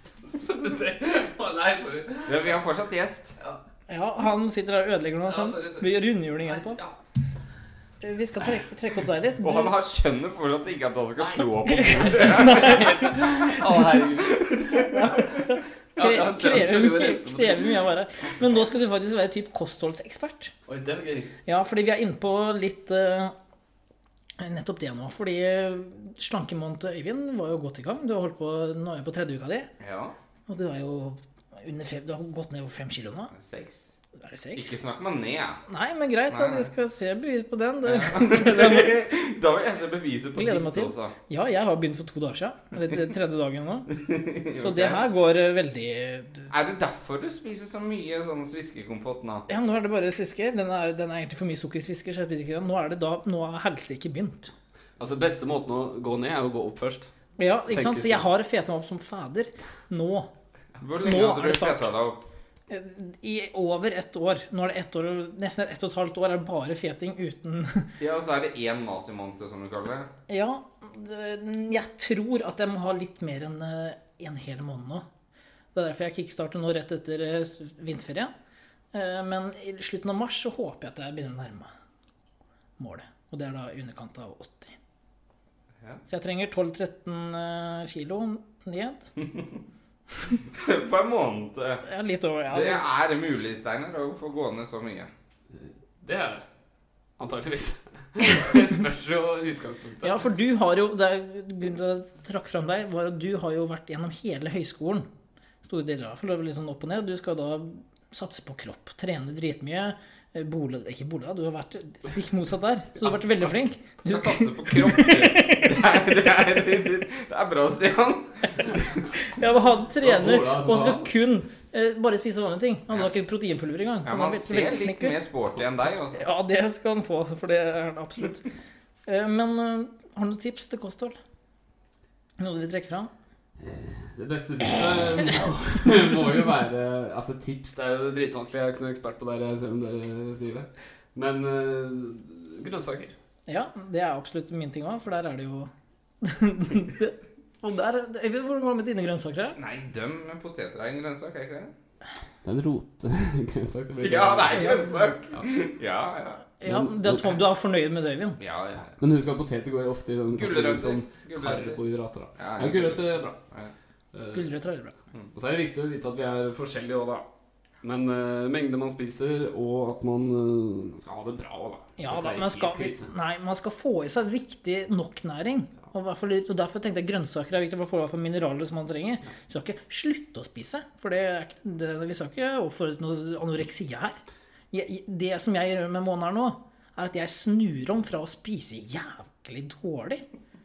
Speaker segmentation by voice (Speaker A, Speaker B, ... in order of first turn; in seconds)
Speaker A: 0.2-2.5, 5.3-5.9, 12.2-14.9, 15.9-17.8, 20.6-21.3, 55.0-57.1, 57.7-58.2, 95.5-96.4, 97.2-100.2, 120.0-121.1, 133.6-143.2, 152.4-154.8, 156.6-157.4, 158.9-163.4, 164.1-164.5, 165.3-167.2, 167.8-173.1
Speaker B: 2.2-3.4, 9.4-15.0, 29.8-30.1, 33.3-33.9, 34.5-35.6, 36.3-36.7, 37.8-41.1, 43.9-45.0, 46.5-49.5, 60.8-62.3, 68.0-70.1, 89.2-89.6, 90.5-91.8, 92.5-95.1, 114.0-118.7, 124.0-126.2, 149.6-151.7, 154.0-156.4, 158.4-159.0, 160.3-161.8, 162.4-163.7
Speaker C: 3.9-6.8, 8.0-9.7, 11.6-13.6, 14.7-20.5, 21.4-23.3, 24.4-29.7, 30.5-33.3, 34.2-34.8, 35.7-39.0, 40.3-43.9, 44.5-46.5, 49.5-54.5, 57.4-60.3, 61.0-61.9, 62.7-67.9, 70.3-75.0, 75.7-78.3, 78.9-81.7, 82.8-84.8, 86.1-89.1, 91.8-92.8, 100.0-105.1, 105.6-115.8, 119.1-125.2, 126.1-128.4, 129.1-131.2, 132.4-133.1, 143.5-145.7, 146.2-149.6, 154.5-155.0, 156.6-158.4, 164.3-164.9, 172.0-184.2, 184.7-190.2